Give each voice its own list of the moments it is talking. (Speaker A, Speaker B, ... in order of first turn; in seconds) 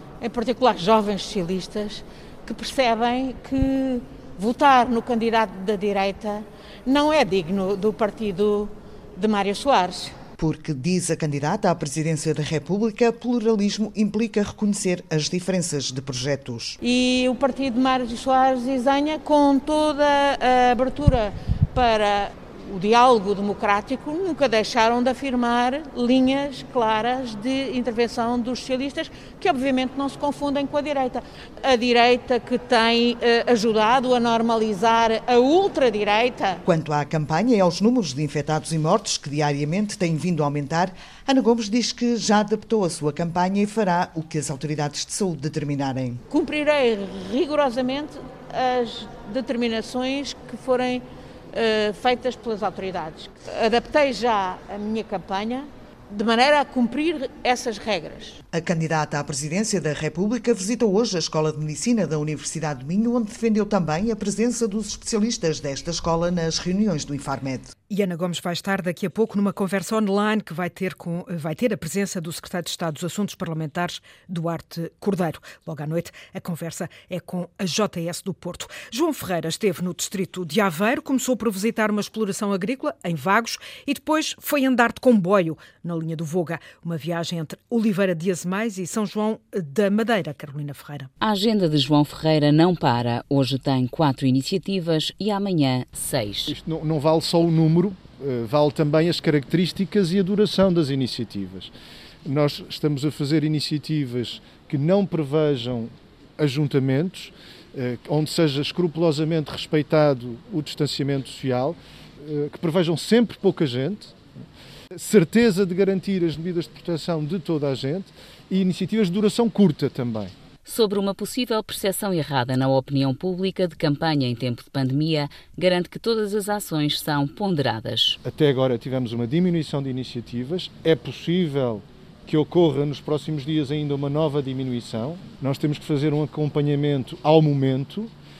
Speaker A: 0.2-10.2, 16.8-36.6, 46.3-58.4
Speaker B: 10.4-16.8, 36.6-46.2, 58.5-67.7
Speaker C: 67.9-91.1
Speaker D: 91.2-96.5, 120.6-128.2
Speaker E: 96.5-101.7, 102.2-114.1, 115.0-120.3, 128.2-138.1